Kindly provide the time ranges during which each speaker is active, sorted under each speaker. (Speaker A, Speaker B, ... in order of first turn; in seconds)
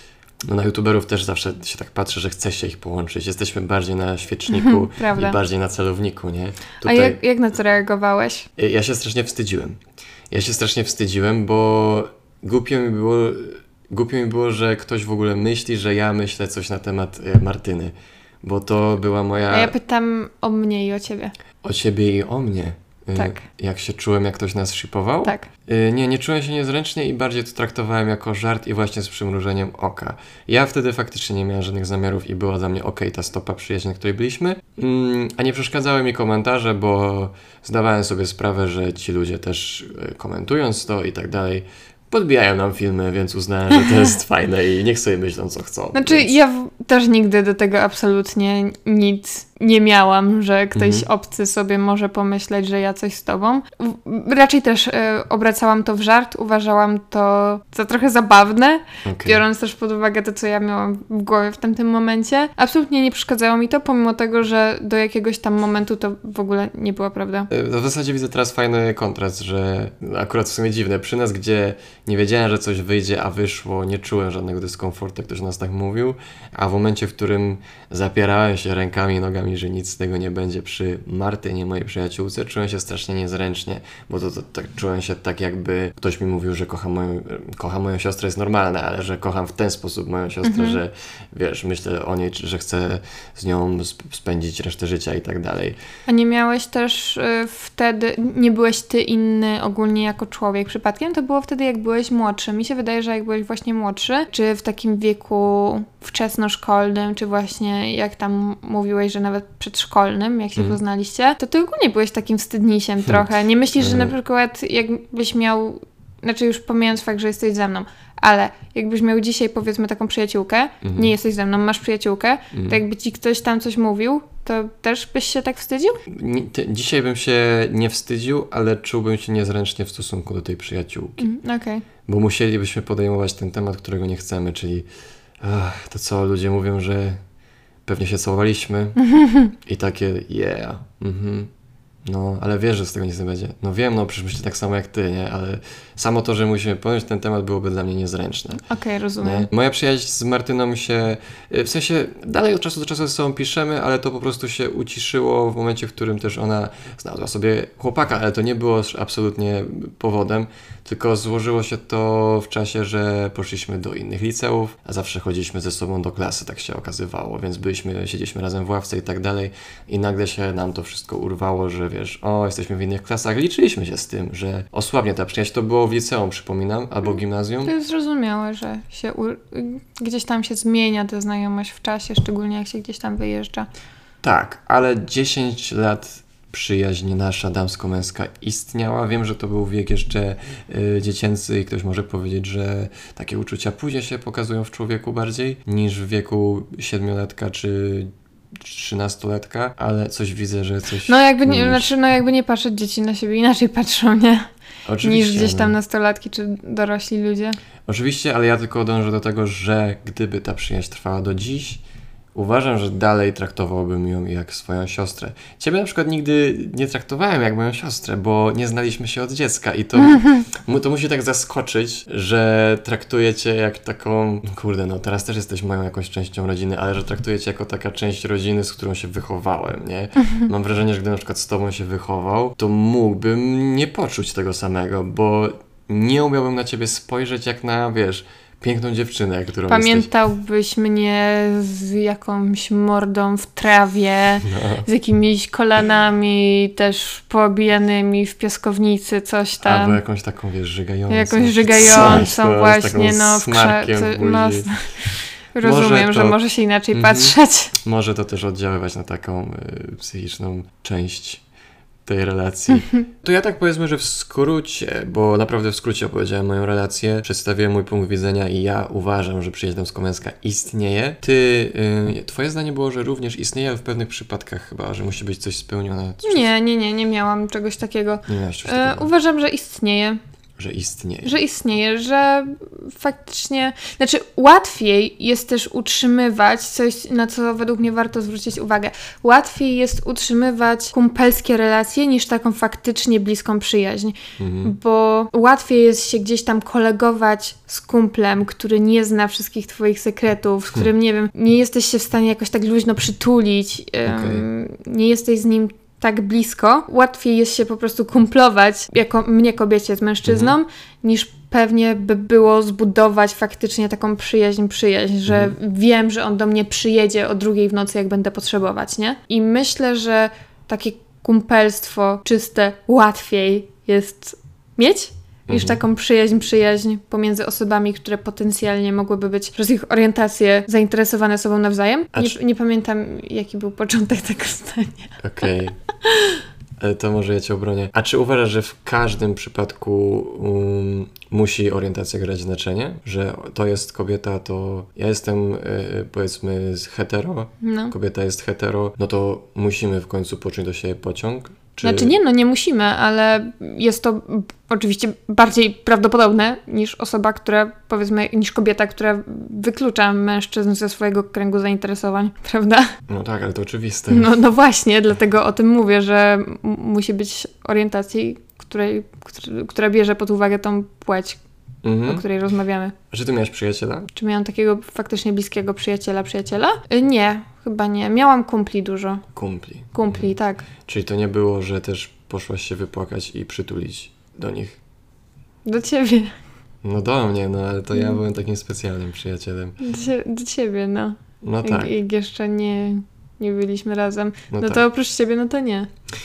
Speaker A: 0.5-7.2, 8.6-9.8, 10.3-19.8, 21.6-46.3, 50.8-51.1, 59.0-59.4, 67.5-95.8, 113.8-114.1, 120.8-121.1, 122.5-122.8, 126.1-131.3, 132.1-134.9, 135.4-137.2, 137.9-139.0, 139.6-141.5, 142.1-148.6, 149.2-177.7, 184.2-201.9, 204.9-205.7, 207.9-211.8, 212.3-240.1, 244.5-244.9, 249.6-254.7, 255.6-256.4, 256.9-261.4, 262.1-276.5, 278.3-279.1, 280.6-281.4, 294.4-294.8, 304.1-304.4, 310.2-310.6, 315.3-315.6, 325.5-325.8, 335.2-335.8, 336.8-352.1, 363.1-364.4, 371.8-372.2, 373.1-374.1, 379.3-380.3, 380.9-384.8, 386.8-389.8, 391.4-391.9, 394.5-394.9
Speaker B: 4.5-5.4, 6.8-8.5, 19.5-21.3, 23.1-23.4, 45.9-67.5, 90.4-90.8, 96.1-126.0, 131.2-131.8, 139.0-139.5, 148.7-149.5, 177.6-183.7, 201.1-207.6, 239.7-250.0, 251.1-257.7, 276.2-280.2, 281.2-335.2, 336.0-336.4, 347.6-347.9, 351.8-362.9, 364.1-371.4, 372.1-372.9, 374.1-379.2, 379.9-380.7, 385.6-386.3, 389.8-395.9